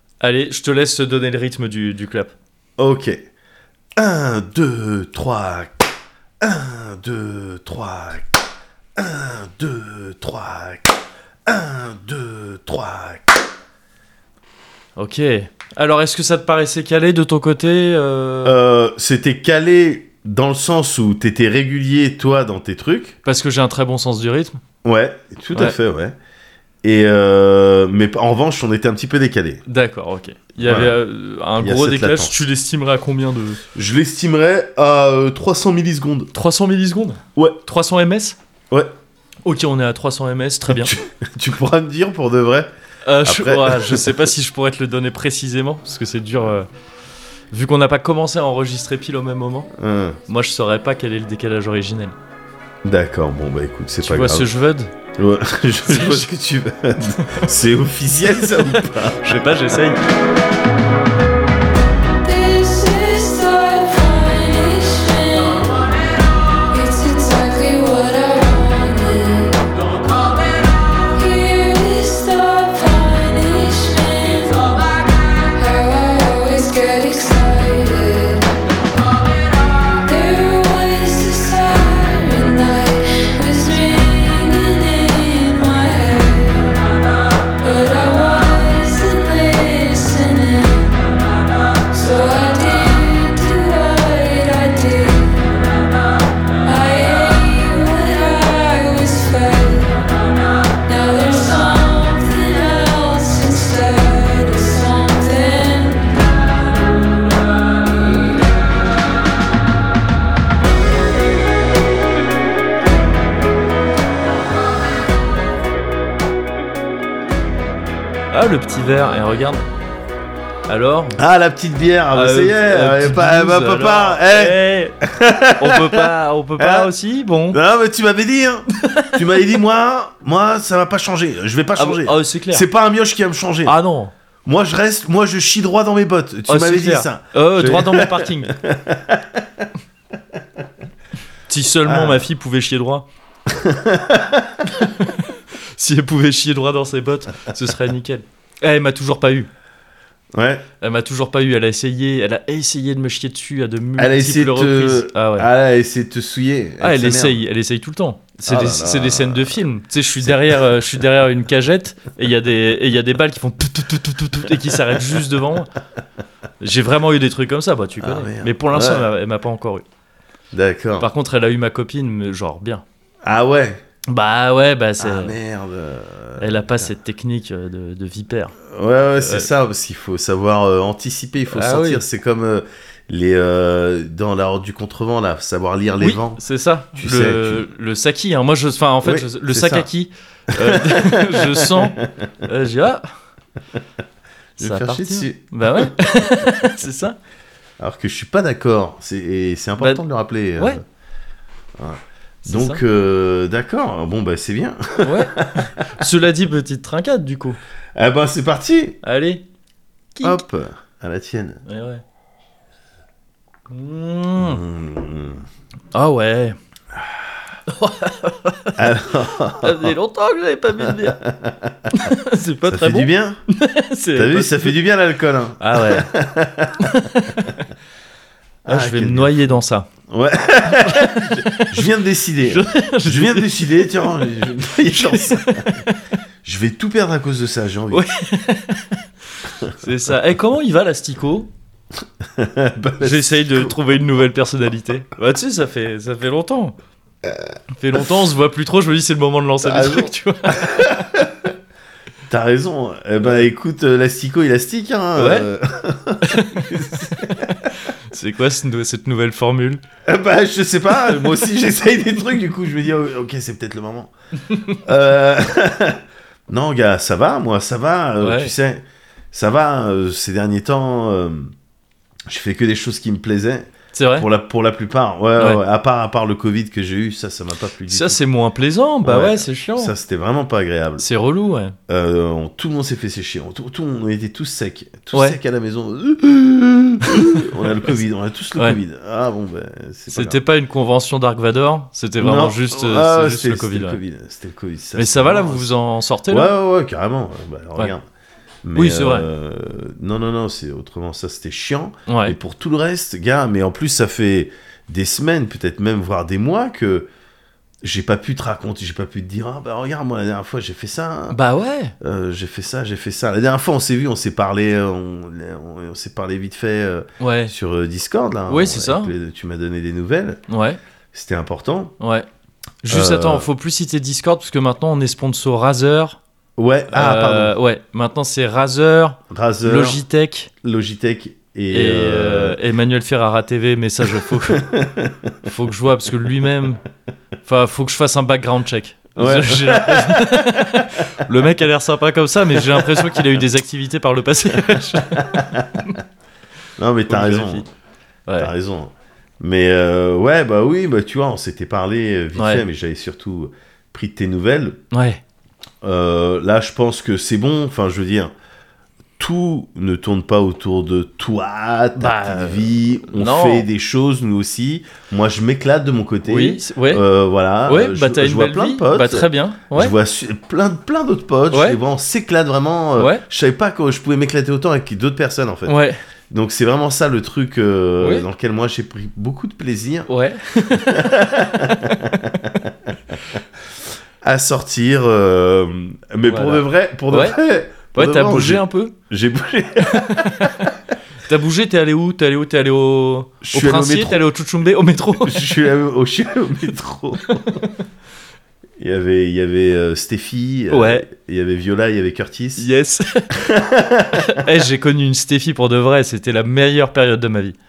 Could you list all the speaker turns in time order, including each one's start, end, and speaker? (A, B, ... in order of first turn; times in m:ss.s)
0:00.2-0:02.3 A
0:02.8-0:03.2 B
0:04.0-0:05.9 B
0:06.4-0:08.4 B
0:09.0-0:13.4 B
0:15.0-0:18.6 A
0:18.4-0:23.2 B
0:23.2-0:24.6 A
0:24.8-0:26.2 B
0:26.8-0:29.6 B
0:29.7-0:33.6 A
0:30.6-0:30.9 B
0:31.6-0:32.4 B
0:33.7-0:36.3 B
0:36.3-0:38.4 A
0:37.3-0:37.6 B
0:39.4-0:40.9 A
0:40.7-0:42.7 B
0:43.0-0:46.7 A
0:43.2-0:44.3 B
0:47.5-0:49.7 A
0:49.8-0:50.2 B
0:50.3-0:52.1 A
0:52.8-0:54.5 B
0:54.0-0:54.9 A
0:55.2-0:59.4 B
0:55.8-0:56.3 A
0:58.4-1:00.0 A
1:02.2-1:05.8 C
1:06.7-1:18.6 C
1:19.9-1:35.9 C
1:36.6-1:47.9 C
1:58.3-1:59.6 A
2:00.7-2:01.2 A
2:01.2-2:06.9 B
2:02.1-2:05.0 A
2:05.6-2:07.6 A
2:07.5-2:13.8 B
2:08.8-2:09.4 A
2:11.8-2:12.6 A
2:13.6-2:14.1 A
2:14.4-2:19.7 B
2:16.5-2:18.5 A
2:21.5-2:23.0 A
2:21.8-2:22.2 B
2:23.5-2:24.8 B
2:24.8-2:29.5 A
2:30.3-2:30.6 B
2:30.8-2:35.5 A
2:34.0-2:37.4 B
2:36.8-2:45.7 A
2:38.4-2:39.6 B
2:40.2-2:40.6 B
2:46.6-2:49.8 A
2:48.0-2:49.0 B
2:50.5-2:51.1 B
2:51.0-2:52.8 A
2:53.2-2:53.8 B
2:54.1-2:55.4 A
2:55.0-2:56.9 B
2:56.4-2:58.5 A
2:58.7-3:06.4 B
2:59.2-2:59.5 A
3:01.5-3:02.0 A
3:06.0-3:13.1 A
3:06.9-3:07.6 B
3:09.0-3:09.9 B
3:10.5-3:12.3 B
3:14.6-3:17.2 A
3:14.6-3:15.9 B
3:17.8-3:20.8 B
3:19.8-3:20.0 A
3:21.8-3:25.9 B
3:22.4-3:22.8 A
3:25.0-3:27.6 A
3:27.9-3:29.0 B
3:29.0-3:29.4 A
3:30.1-3:30.4 A
3:30.2-3:31.6 B
3:31.6-3:32.0 A
3:33.7-3:34.6 A
3:34.4-3:35.4 B
3:35.9-3:36.6 A
3:36.9-3:37.3 B
3:37.7-3:39.0 A
3:38.8-3:39.9 B
3:39.6-3:41.2 A
3:40.8-3:41.9 B
3:41.9-3:44.8 A
3:42.6-3:43.4 B
3:44.1-3:46.9 B
3:45.6-3:46.1 A
3:46.8-3:47.6 A
3:48.6-3:49.5 B
3:48.7-3:49.9 A
3:50.1-3:55.8 B
3:50.7-3:51.9 A
3:52.4-3:54.1 A
3:54.8-3:56.0 A
3:56.4-3:58.0 B
3:57.9-4:01.5 A
4:02.2-4:03.7 B
4:03.0-4:06.7 A
4:07.8-4:10.9 A
4:09.6-4:11.5 B
4:12.3-4:17.7 B
4:15.2-4:15.5 A
4:16.2-4:19.8 A
4:20.0-4:24.1 B
4:24.5-4:24.8 A
4:24.8-4:31.5 B
4:28.2-4:28.5 A
4:32.3-4:38.2 B
4:33.9-4:34.3 A
4:37.9-4:39.9 A
4:39.0-4:41.0 B
4:41.0-4:41.8 A
4:41.9-4:50.4 B
4:45.1-4:45.4 A
4:47.0-4:47.9 A
4:50.1-4:54.0 A
4:52.2-4:55.7 B
4:55.0-4:56.5 A
4:56.3-4:58.0 B
4:58.6-5:07.1 B
4:58.7-4:59.3 A
5:02.1-5:02.4 A
5:07.8-5:11.4 B
5:11.3-5:11.9 A
5:12.0-5:20.4 B
5:17.2-5:17.5 A
5:18.5-5:19.1 A
5:20.5-5:20.8 A
5:21.1-5:21.9 B
5:22.0-5:22.2 A
5:22.8-5:26.2 A
5:22.9-5:23.5 B
5:26.6-5:27.5 B
5:26.9-5:30.5 A
5:29.3-5:30.0 B
5:30.6-5:32.6 B
5:31.7-5:34.7 A
5:34.2-5:35.3 B
5:35.4-5:36.8 A
5:37.4-5:46.0 A
5:39.2-5:40.9 B
5:42.5-5:43.3 B
5:44.9-5:45.8 B
5:46.8-5:47.7 B
5:47.1-5:47.7 A
5:48.4-5:54.8 B
5:52.4-5:52.6 A
5:54.9-5:55.2 A
5:55.8-5:58.3 B
5:59.2-6:15.8 B
6:02.0-6:03.7 A
6:06.2-6:07.0 A
6:07.6-6:09.9 A
6:11.5-6:11.8 A
6:13.0-6:13.2 A
6:15.6-6:16.0 A
6:16.3-6:20.1 B
6:18.0-6:18.3 A
6:20.1-6:22.4 A
6:20.7-6:23.1 B
6:24.2-6:30.5 B
6:26.3-6:27.4 A
6:28.0-6:28.9 A
6:29.8-6:35.4 A
6:33.4-6:34.2 B
6:35.2-6:37.7 B
6:38.8-6:42.6 B
6:40.7-6:41.0 A
6:42.6-6:43.4 A
6:43.3-6:44.5 B
6:44.1-6:47.6 A